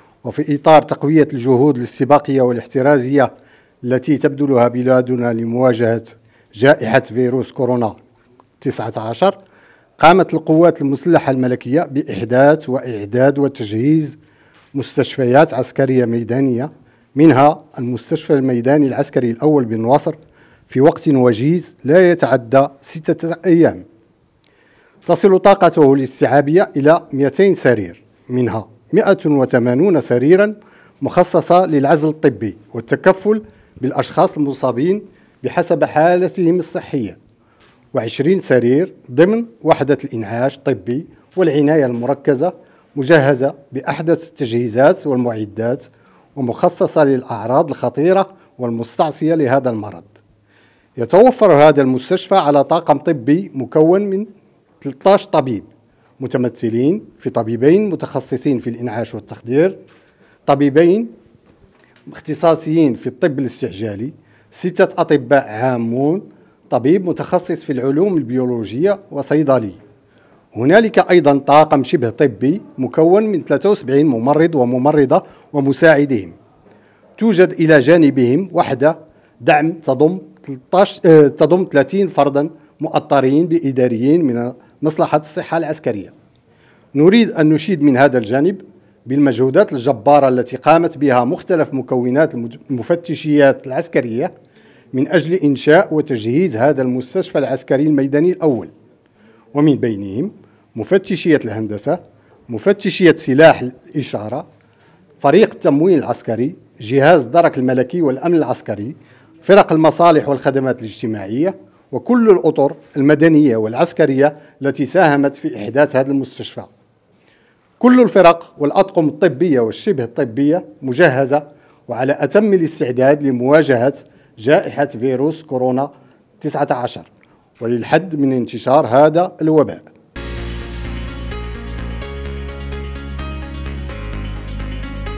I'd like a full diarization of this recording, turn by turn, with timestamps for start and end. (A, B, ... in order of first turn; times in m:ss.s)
0:00.2-0:03.3 A
0:03.8-0:08.0 A
0:08.6-0:09.4 A
0:10.0-0:14.2 A
0:14.7-0:20.2 A
0:20.7-0:23.8 A
0:25.0-0:37.2 A
0:37.9-0:50.1 A
0:51.0-0:54.3 A
0:54.8-0:59.8 A
1:00.5-1:01.1 A
1:02.1-1:09.8 A
1:10.5-1:16.4 A
1:17.2-1:26.1 A
1:26.9-1:34.3 A
1:34.9-1:38.7 A
1:39.5-1:44.4 A
1:45.2-1:56.7 A
1:57.8-2:05.9 A
2:06.4-2:07.1 A
2:07.6-2:09.8 A